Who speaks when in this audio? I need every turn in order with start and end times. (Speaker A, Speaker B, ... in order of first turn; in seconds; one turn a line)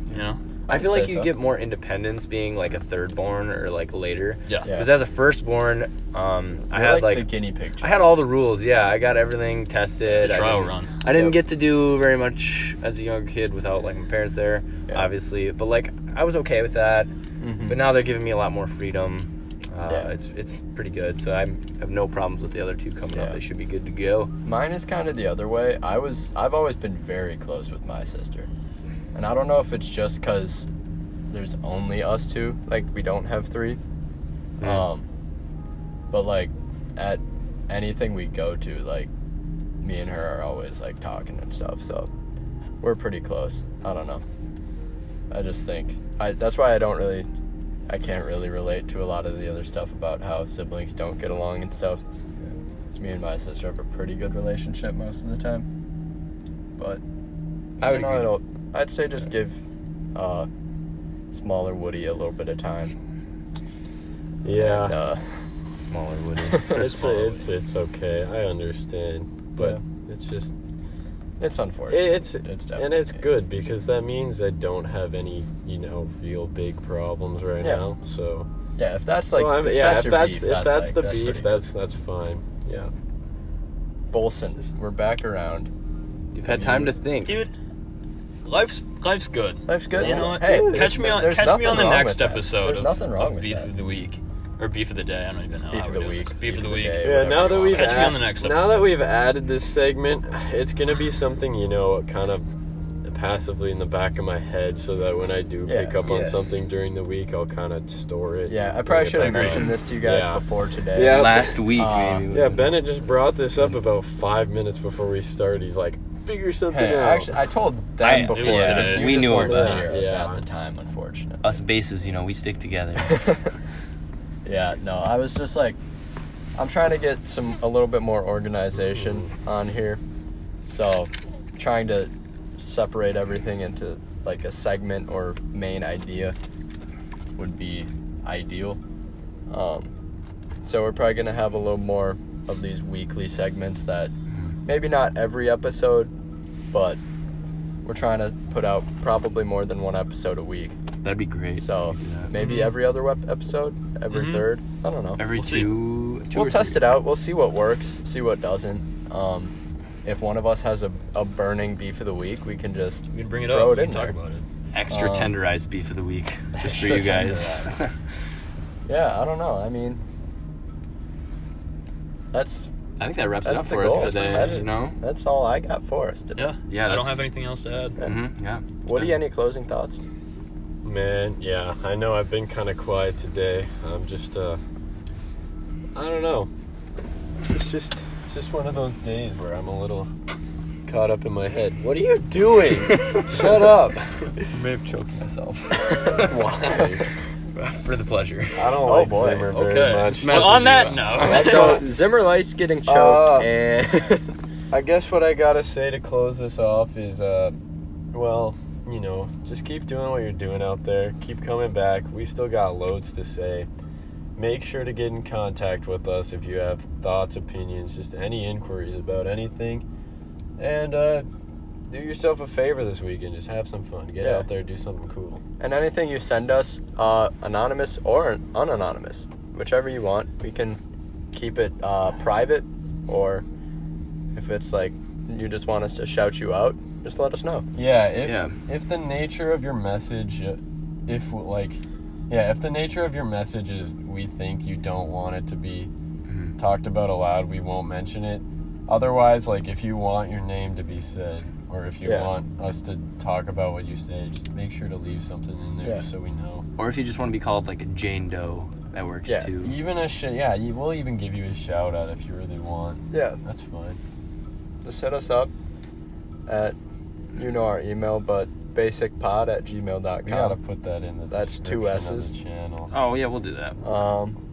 Speaker A: 0.1-0.4
Speaker B: 0.1-7.3
Speaker C: 0.7-1.3
Speaker C: 4.6-4.9
Speaker C: 6.7-8.2
Speaker B: 7.8-17.1
Speaker A: 10.1-10.9
Speaker C: 11.1-11.4
Speaker C: 17.4-17.8
Speaker B: 17.7-24.3
Speaker C: 23.1-23.4
Speaker C: 24.4-28.5
Speaker C: 29.1-30.7
Speaker C: 31.3-33.8
Speaker C: 34.6-35.0
Speaker B: 34.6-34.9
Speaker C: 36.1-39.1
Speaker C: 39.8-42.1
Speaker C: 42.8-44.2
Speaker C: 45.3-47.3
Speaker C: 47.9-55.7
Speaker C: 56.8-57.0
Speaker B: 57.8-58.3
Speaker C: 57.8-59.6
Speaker C: 60.1-60.5
Speaker C: 61.3-63.0
Speaker D: 64.4-65.0
Speaker C: 64.5-65.5
Speaker B: 65.8-67.1
Speaker C: 66.5-67.4
Speaker D: 66.7-70.5
Speaker C: 69.6-69.8
Speaker C: 71.4-73.3
Speaker D: 71.9-78.5
Speaker C: 78.8-81.6
Speaker D: 79.3-82.9
Speaker C: 84.1-85.7
Speaker B: 86.3-87.5
Speaker C: 86.4-87.0
Speaker A: 87.2-87.5
Speaker A: 88.5-97.0
Speaker C: 89.7-93.7
Speaker D: 90.0-91.0
Speaker C: 95.7-98.2
Speaker D: 97.0-102.5
Speaker A: 97.7-99.0
Speaker D: 103.0-111.6
Speaker C: 105.7-106.0
Speaker B: 106.0-106.6
Speaker C: 108.5-112.3
Speaker A: 109.2-109.7
Speaker B: 111.0-112.8
Speaker D: 112.3-117.4
Speaker C: 116.7-121.6
Speaker B: 118.0-119.9
Speaker A: 118.3-119.2
Speaker D: 119.0-120.4
Speaker B: 121.4-123.3
Speaker C: 123.0-123.5
Speaker C: 124.5-125.8
Speaker C: 126.6-130.0
Speaker D: 128.9-129.2
Speaker C: 130.6-136.4
Speaker C: 137.4-138.8
Speaker C: 139.5-139.9
Speaker C: 140.6-144.1
Speaker C: 144.7-146.1
Speaker C: 146.7-147.0
Speaker C: 147.8-150.8
Speaker B: 151.0-152.3
Speaker C: 151.6-155.3
Speaker A: 152.3-152.8
Speaker A: 154.1-154.5
Speaker B: 155.2-156.8
Speaker A: 155.3-155.7
Speaker C: 156.3-159.5
Speaker C: 160.1-164.2
Speaker A: 163.1-164.4
Speaker B: 164.7-167.9
Speaker C: 164.9-165.3
Speaker C: 166.6-167.7
Speaker C: 168.9-170.0
Speaker C: 172.3-172.7
Speaker B: 173.0-175.0
Speaker C: 173.4-176.5
Speaker A: 174.0-174.6
Speaker A: 176.4-178.0
Speaker B: 176.7-177.2
Speaker B: 178.0-179.1
Speaker C: 178.8-180.0
Speaker D: 180.8-184.6
Speaker D: 185.9-186.5
Speaker D: 187.4-190.1
Speaker D: 190.9-194.4
Speaker B: 192.9-193.2
Speaker C: 193.3-193.9
Speaker B: 194.5-196.4
Speaker C: 196.1-196.9
Speaker D: 196.2-197.0
Speaker B: 197.6-198.8
Speaker D: 198.6-201.8
Speaker C: 198.8-199.5
Speaker A: 199.5-201.8
Speaker B: 200.1-201.8
Speaker C: 201.2-204.3
Speaker D: 202.9-203.5
Speaker D: 204.7-207.6
Speaker D: 208.1-213.7
Speaker D: 214.4-219.8
Speaker D: 220.6-221.3
Speaker D: 221.9-225.4
Speaker C: 224.2-224.5
Speaker C: 225.6-230.8
Speaker C: 231.3-233.4
Speaker C: 234.3-237.7
Speaker D: 237.8-245.9
Speaker B: 238.2-238.6
Speaker B: 246.3-246.6
Speaker D: 246.6-256.7
Speaker C: 252.0-252.3
Speaker C: 255.8-256.1
Speaker B: 256.8-259.8
Speaker C: 259.2-259.5
Speaker D: 259.6-264.0
Speaker C: 263.1-263.4
Speaker C: 264.8-265.5
Speaker C: 266.5-266.8
Speaker C: 267.4-270.6
Speaker D: 270.2-272.9
Speaker C: 271.3-272.3
Speaker B: 272.9-273.8
Speaker C: 273.8-274.4